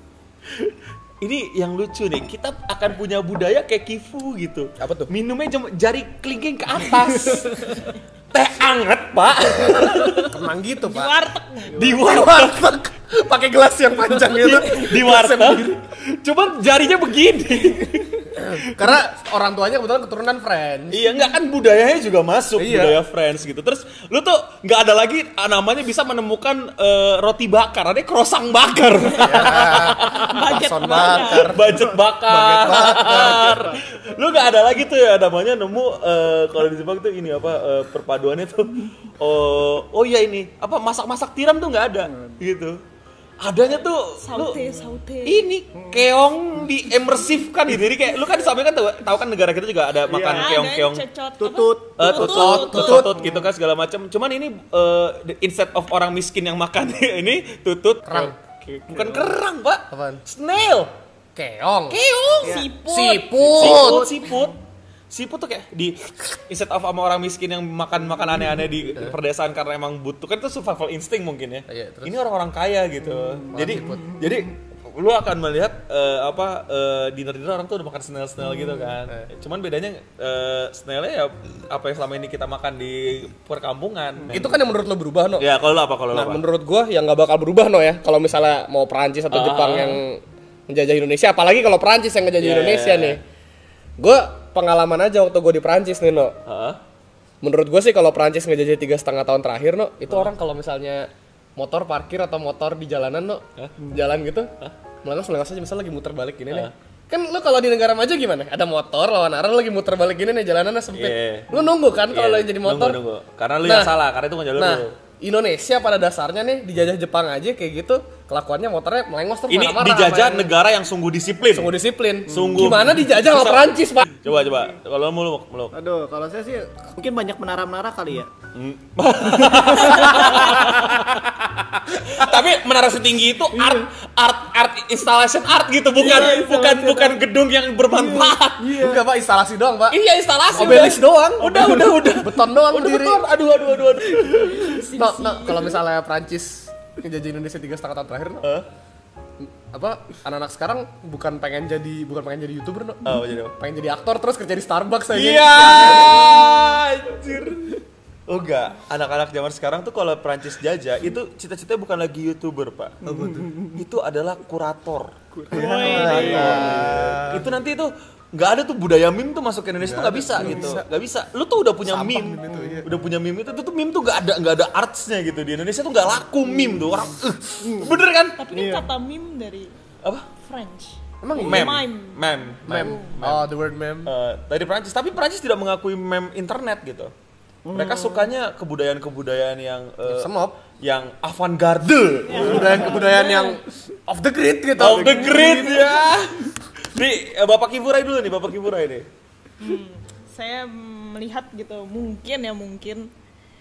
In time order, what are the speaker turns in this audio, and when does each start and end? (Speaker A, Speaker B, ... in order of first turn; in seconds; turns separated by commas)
Speaker A: 0.6-10.3, Speaker B: 4.8-5.1, Speaker B: 10.2-11.2, Speaker C: 10.8-11.8, Speaker B: 11.7-15.8, Speaker A: 11.8-12.7, Speaker A: 14.2-19.0, Speaker B: 18.4-21.1, Speaker A: 20.9-30.4, Speaker B: 22.6-23.0, Speaker B: 29.2-33.8, Speaker C: 30.2-31.6, Speaker A: 31.5-42.8, Speaker A: 43.4-44.6, Speaker C: 44.2-45.5, Speaker A: 45.2-51.0, Speaker D: 50.1-50.5, Speaker C: 50.2-53.1, Speaker D: 51.4-52.0, Speaker A: 52.0-60.9, Speaker B: 52.0-53.3, Speaker B: 58.0-58.4, Speaker B: 58.9-59.3, Speaker B: 59.9-60.2, Speaker B: 61.4-62.0, Speaker A: 61.9-62.7, Speaker C: 62.4-63.9, Speaker B: 62.6-64.2, Speaker A: 63.4-64.6, Speaker A: 65.1-84.6, Speaker B: 71.7-72.2, Speaker B: 73.5-74.2, Speaker B: 84.3-85.5, Speaker A: 85.4-86.4, Speaker B: 86.1-93.2, Speaker A: 89.3-90.0, Speaker A: 92.4-93.2, Speaker B: 94.0-96.4, Speaker A: 96.5-96.8, Speaker B: 97.4-104.5, Speaker B: 105.0-113.0, Speaker A: 110.9-111.5, Speaker A: 112.1-115.0, Speaker B: 113.6-114.0, Speaker B: 114.5-120.5, Speaker A: 119.5-121.7, Speaker B: 121.5-124.1, Speaker A: 122.3-125.8, Speaker D: 125.7-128.3, Speaker A: 128.5-138.9, Speaker D: 129.8-130.6, Speaker C: 136.0-137.2, Speaker D: 137.9-139.0, Speaker B: 138.7-140.0, Speaker A: 139.9-144.7, Speaker B: 140.5-143.2, Speaker C: 144.3-145.8, Speaker B: 144.8-148.5, Speaker B: 149.4-156.6, Speaker A: 153.1-153.6, Speaker A: 155.1-163.0, Speaker B: 163.0-163.7, Speaker A: 163.7-178.4, Speaker B: 165.5-167.5, Speaker D: 165.5-167.1, Speaker C: 165.5-166.6, Speaker B: 169.8-170.9, Speaker B: 171.8-172.9, Speaker D: 172.5-172.8, Speaker D: 177.6-178.0, Speaker C: 178.4-179.7, Speaker D: 178.5-178.8, Speaker C: 180.4-182.9, Speaker B: 181.2-181.8, Speaker A: 181.4-187.1, Speaker B: 182.7-184.1, Speaker D: 187.7-188.3, Speaker A: 187.7-192.7, Speaker B: 190.1-190.6, Speaker C: 192.3-193.6, Speaker B: 192.3-196.0, Speaker A: 194.8-199.1, Speaker C: 199.6-203.1